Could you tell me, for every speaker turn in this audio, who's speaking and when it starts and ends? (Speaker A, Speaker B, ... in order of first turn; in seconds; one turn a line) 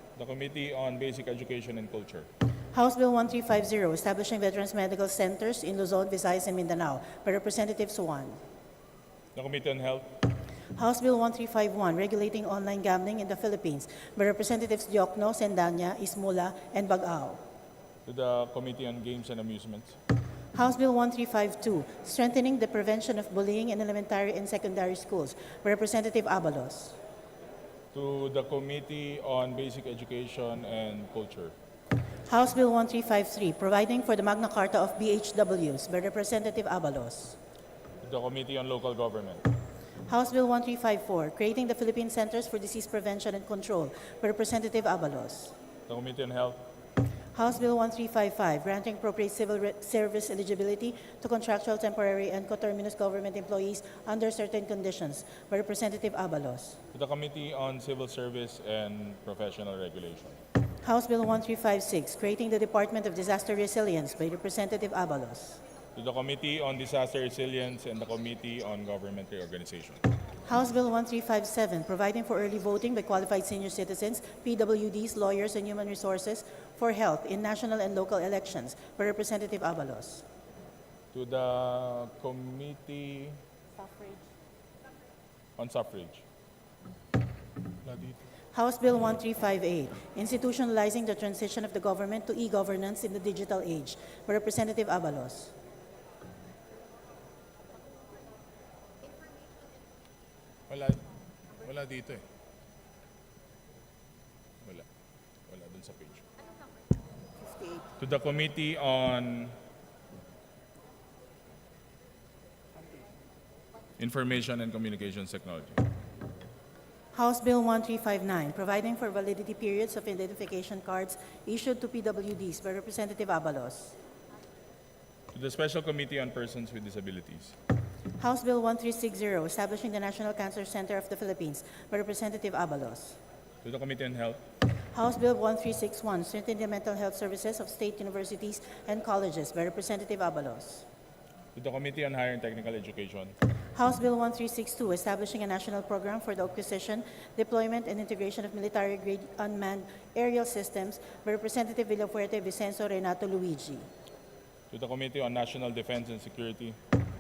Speaker A: 0.2-2.3
Speaker B: 2.7-8.4
Speaker A: 9.3-10.1
Speaker B: 10.7-17.4
Speaker A: 18.1-19.9
Speaker B: 20.5-27.0
Speaker A: 27.9-31.5
Speaker B: 32.3-37.4
Speaker A: 38.0-39.5
Speaker B: 40.1-45.5
Speaker A: 45.9-46.6
Speaker B: 47.3-56.8
Speaker A: 56.9-60.4
Speaker B: 60.8-65.6
Speaker A: 66.0-70.0
Speaker B: 70.5-80.2
Speaker A: 81.1-83.4
Speaker A: 85.6-86.2
Speaker A: 87.8-88.2
Speaker B: 88.5-95.5
Speaker A: 100.7-101.0
Speaker A: 101.6-102.2
Speaker A: 104.6-104.9
Speaker A: 105.5-106.2
Speaker A: 108.0-109.5
Speaker A: 114.0-115.8
Speaker B: 117.1-123.9
Speaker A: 125.3-127.5
Speaker B: 128.2-133.2
Speaker A: 133.6-134.4
Speaker B: 134.9-140.8
Speaker A: 141.6-143.3
Speaker B: 143.8-153.9
Speaker A: 154.7-156.8